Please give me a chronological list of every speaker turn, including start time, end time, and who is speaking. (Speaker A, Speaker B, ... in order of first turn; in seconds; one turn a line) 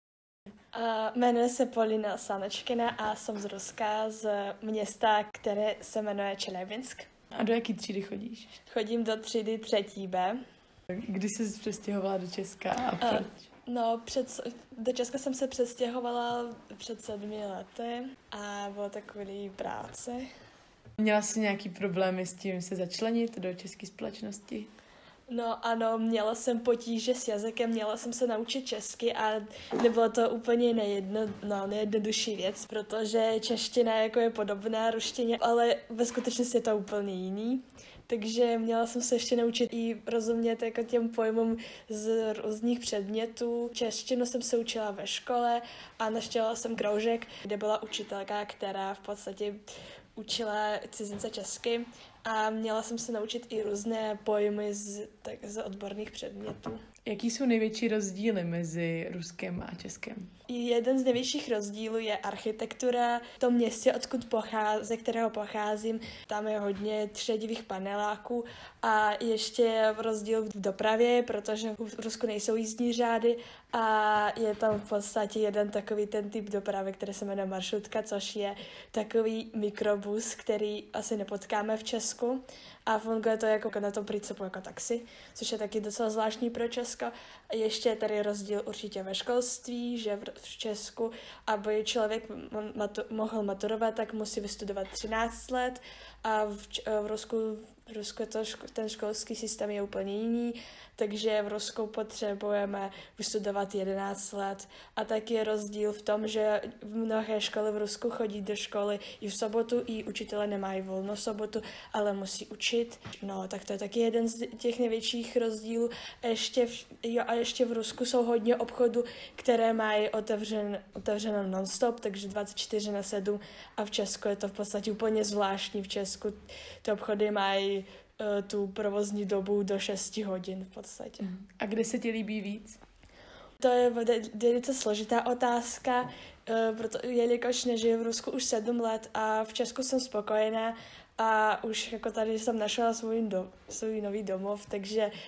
Speaker A: 0.7-7.1
Speaker B: 7.3-8.6
Speaker A: 8.7-10.4
Speaker B: 10.9-13.3
Speaker A: 13.0-20.2
Speaker B: 21.0-24.7
Speaker A: 25.3-49.6
Speaker A: 50.2-56.8
Speaker B: 57.1-60.3
Speaker A: 60.5-131.3
Speaker B: 131.2-132.8
Speaker A: 133.6-145.1